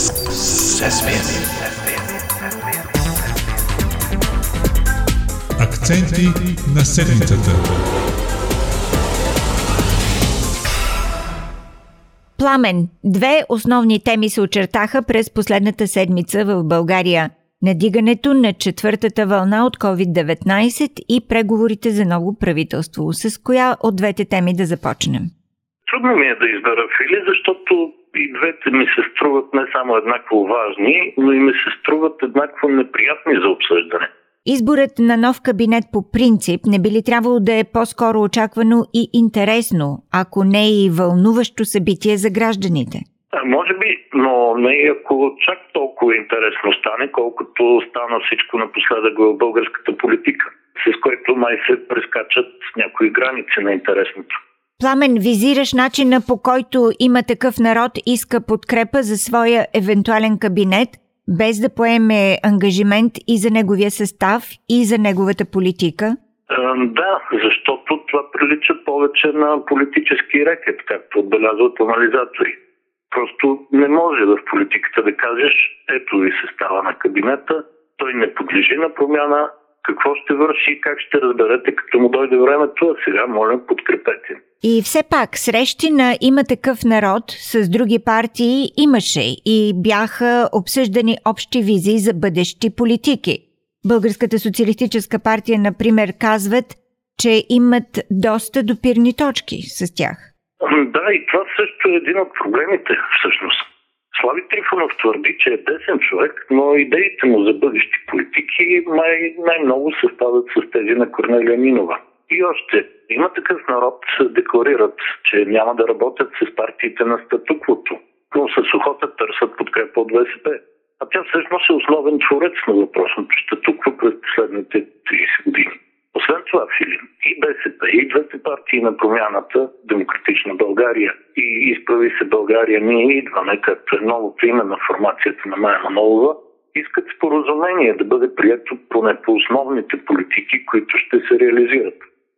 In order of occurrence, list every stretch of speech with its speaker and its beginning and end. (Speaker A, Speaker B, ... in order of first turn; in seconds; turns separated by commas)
Speaker A: 5.6-7.8, Speaker B: 12.4-25.3, Speaker C: 25.9-34.1, Speaker B: 34.5-43.0, Speaker C: 43.4-54.4, Speaker B: 54.8-66.2, Speaker C: 66.5-72.6, Speaker C: 73.1-84.4, Speaker B: 84.6-100.3, Speaker C: 100.6-142.0